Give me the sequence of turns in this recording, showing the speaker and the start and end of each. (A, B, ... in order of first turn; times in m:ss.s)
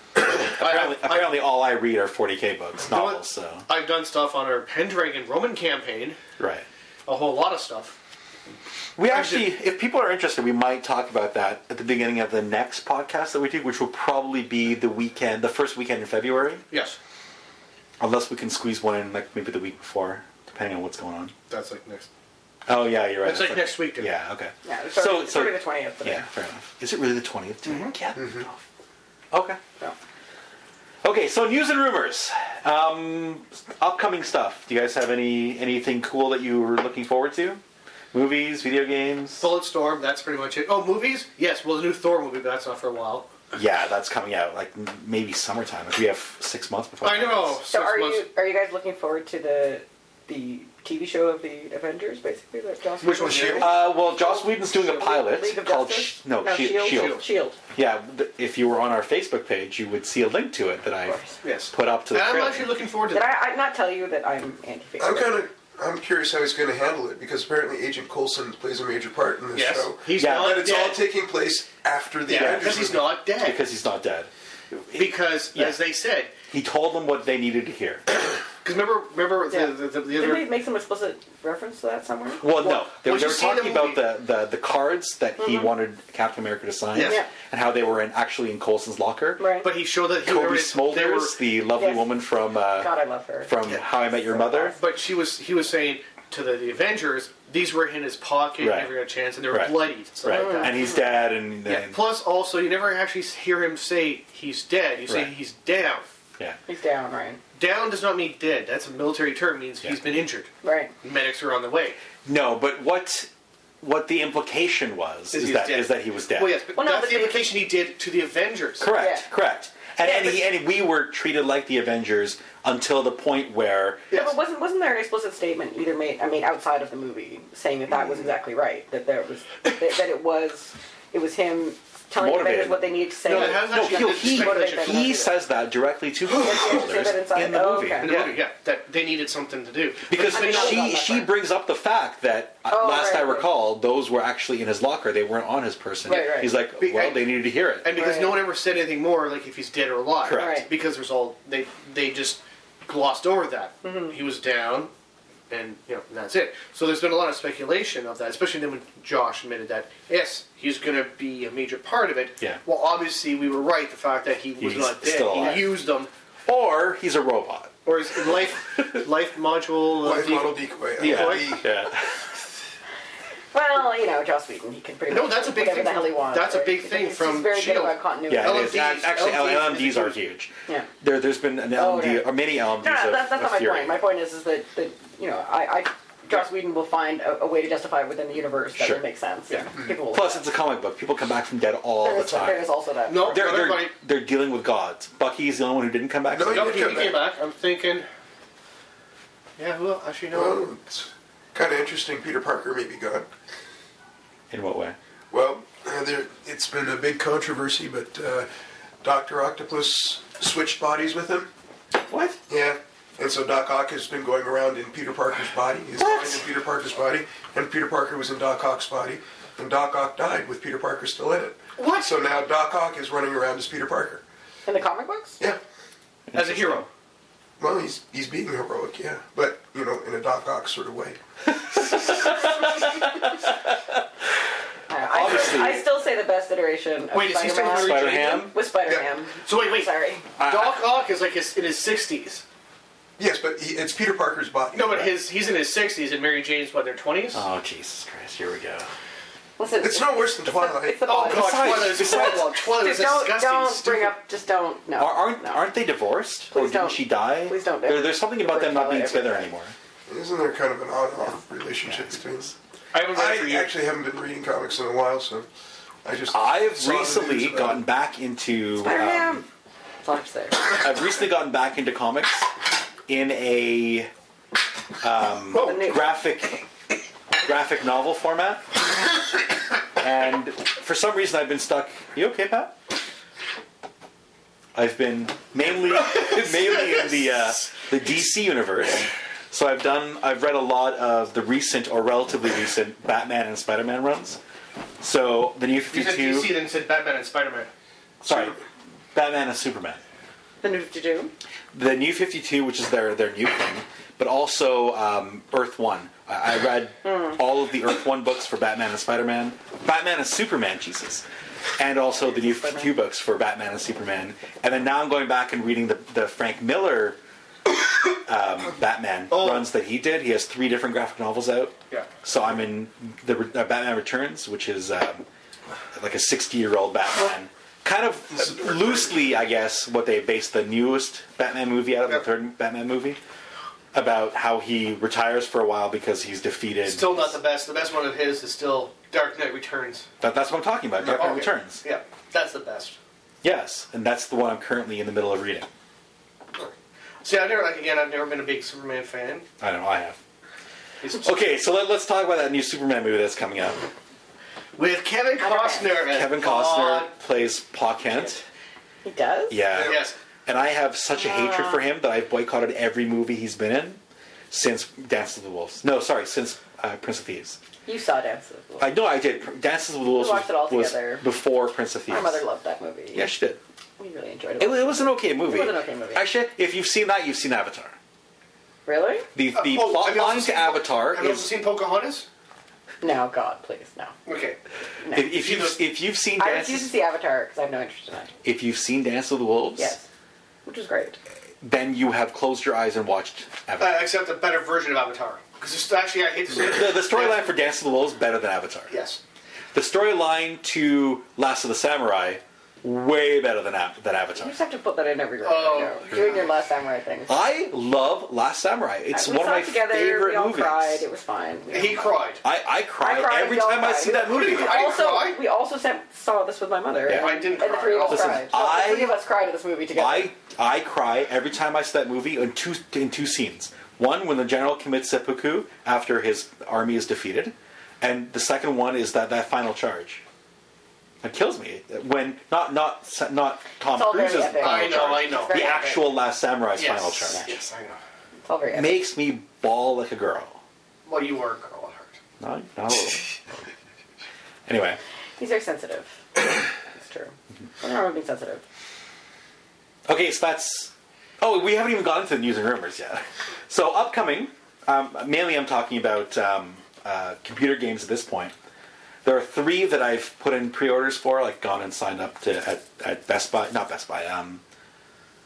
0:00.2-0:00.5 A
0:00.5-0:03.7 B
0:00.6-0:01.4 C
0:02.9-0:06.2 C
0:06.4-0:06.6 B
0:07.1-0:08.0 C
0:09.0-0:16.7 B
0:09.1-0:09.5 C
0:16.7-0:17.0 C
0:18.0-0:21.3 B
0:21.5-0:22.1 C
0:22.7-0:28.6 B
0:23.2-0:24.1 C
0:24.6-0:26.3 D
0:27.6-0:28.0 C
0:28.2-0:28.4 A
0:29.3-0:29.6 B
0:31.0-0:37.6 B
0:38.1-0:39.5 B
0:39.4-0:43.3 C
0:43.5-0:47.6 B
0:47.0-0:48.2 C
0:47.7-0:57.6 D
0:53.0-0:53.8 C
0:53.2-0:53.7 A
0:53.6-1:02.7 B
0:56.9-0:57.2 C
1:01.1-1:01.4 D
1:01.4-1:03.3 C
1:03.1-1:05.4 D
1:05.0-1:13.1 A
1:09.5-1:11.0 C
1:10.2-1:10.7 B
1:12.3-1:13.6 C
1:12.3-1:15.8 B
1:14.9-1:16.3 C
1:16.5-1:18.0 B
1:18.6-1:20.5 C
1:19.5-1:22.4 D
1:22.4-1:29.5 B
1:22.5-1:24.0 C
1:25.4-1:25.7 D
1:26.9-1:27.2 C
1:27.0-1:27.3 D
1:29.4-1:29.7 D
1:29.6-1:31.4 C
1:30.2-1:32.9 B
1:31.8-1:32.2 D
1:32.7-1:33.5 D
1:33.5-1:34.8 B
1:34.3-1:34.8 D
1:34.7-1:41.0 C
1:38.6-1:39.0 B
1:39.5-1:42.0 B
1:40.3-1:41.0 D
1:41.7-1:46.1 C
1:45.1-1:45.3 B
1:46.7-1:47.4 D
1:47.6-1:50.5 C
1:50.6-1:50.9 D
1:51.0-1:52.0 C
1:52.2-1:53.3 B
1:53.8-1:56.6 B
1:55.3-1:58.9 C
1:56.8-1:57.5 D
1:58.8-2:04.1 B
1:58.9-1:59.3 D
2:00.0-2:00.4 D
2:04.1-2:15.3 D
2:12.2-2:18.4 B
2:13.2-2:15.2 C
2:16.4-2:18.2 D
2:18.0-2:20.9 C
2:20.1-2:27.9 B
2:20.3-2:21.3 D
2:22.7-2:23.5 D
2:26.0-2:26.5 D
2:26.8-2:34.9 C
2:27.9-2:28.4 D
2:30.2-2:30.7 B
2:30.3-2:30.7 D
2:33.8-2:34.1 D
2:35.5-2:46.1 C
2:44.6-2:45.8 B
2:45.4-2:45.6 D
2:46.5-2:47.7 B
2:47.8-2:51.7 C
2:50.0-2:51.7 A
2:51.0-2:52.3 B
2:53.5-2:58.8 D
2:55.1-3:00.2 C
2:58.3-3:04.0 B
3:01.7-3:10.4 D
3:08.8-3:09.0 B
3:10.1-3:12.6 B
3:12.0-3:13.4 D
3:13.1-3:13.9 C
3:13.3-3:17.1 B
3:16.3-3:17.3 A
3:16.5-3:18.1 C
3:19.6-3:20.6 C
3:20.3-3:23.3 A
3:24.5-3:25.0 B
3:25.3-3:28.5 A
3:29.0-3:31.5 A
3:32.1-3:32.4 B
3:32.5-3:44.2 A
3:41.8-3:42.1 C
3:44.7-3:45.4 D
3:46.3-3:46.9 B
3:46.3-3:46.9 C
3:47.6-3:51.2 A
3:51.7-3:53.7 B
3:54.9-4:00.3 D
3:55.1-3:55.9 B
3:57.1-4:02.4 C
3:57.7-3:58.6 B
4:00.4-4:00.8 B
4:03.2-4:05.1 A
4:04.7-4:07.4 C
4:07.3-4:08.9 B
4:09.6-4:15.6 D
4:09.8-4:11.2 A
4:11.0-4:14.2 C
4:11.3-4:12.5 B
4:15.0-4:19.7 B
4:16.5-4:19.5 D
4:20.1-4:25.5 A
4:22.9-4:23.7 C
4:26.0-4:27.8 A
4:26.3-4:29.4 B
4:28.8-4:29.5 D
4:30.0-4:30.8 D
4:30.7-4:32.5 B
4:33.1-4:34.1 B
4:35.0-4:36.7 B
4:35.5-4:36.0 C
4:35.5-4:36.0 D
4:37.4-4:38.8 B
4:40.0-4:42.8 B
4:44.8-4:54.4 B
4:55.0-4:56.6 B
4:55.9-4:57.7 C
4:58.2-4:58.6 B
4:59.1-5:00.0 B
5:00.6-5:01.3 D
5:01.7-5:11.2 B
5:07.0-5:07.4 D
5:11.8-5:17.2 B
5:12.4-5:12.9 D
5:18.2-5:25.2 B
5:19.3-5:19.7 C
5:25.9-5:33.2 B
5:33.9-5:37.4 B
5:36.9-5:40.1 C
5:40.2-5:41.8 B
5:41.0-5:43.0 C
5:43.4-5:45.7 B
5:47.2-5:49.5 C
5:49.6-5:50.2 B
5:51.0-5:51.3 C
5:51.1-5:53.9 B
5:54.8-5:57.1 C
5:55.4-5:56.0 D
5:56.1-5:58.4 B
5:59.0-5:59.6 D
5:59.5-6:07.6 B
5:59.8-6:00.2 C
6:01.2-6:01.8 D
6:07.9-6:08.9 D
6:08.8-6:12.4 B
6:10.1-6:11.3 D
6:12.1-6:13.3 D
6:13.1-6:13.6 B
6:14.0-6:16.3 D
6:14.6-6:18.0 B
6:18.9-6:19.3 D
6:19.4-6:21.5 B
6:19.5-6:22.3 C
6:23.0-6:24.1 D
6:24.3-6:24.6 C
6:25.0-6:25.4 D
6:25.1-6:26.9 B
6:25.2-6:25.8 C
6:26.4-6:28.3 D
6:28.4-6:29.9 B
6:29.8-6:30.1 D
6:30.6-6:31.2 D
6:31.6-6:34.1 B
6:33.8-6:37.5 C
6:36.5-6:38.9 B
6:38.9-6:39.2 C
6:39.7-6:44.6 B
6:44.4-6:47.4 D
6:45.4-6:46.5 C
6:47.3-6:51.0 B
6:49.1-6:52.2 D
6:51.7-6:52.4 C
6:52.4-6:54.8 B
6:53.0-7:00.3 D
6:54.2-6:55.4 C
6:57.1-6:57.4 B
6:57.1-6:58.5 C
6:58.1-6:59.2 B
6:59.9-7:10.2 B
7:11.2-7:17.5 B
7:13.9-7:16.1 D
7:14.6-7:15.7 C
7:16.8-7:18.0 C
7:17.3-7:17.6 D
7:18.4-7:19.1 D
7:18.7-7:20.6 B
7:21.1-7:22.2 C
7:22.4-7:23.4 B
7:24.7-7:25.0 B
7:25.4-7:28.6 D
7:30.1-7:38.5 B
7:39.2-7:44.6 B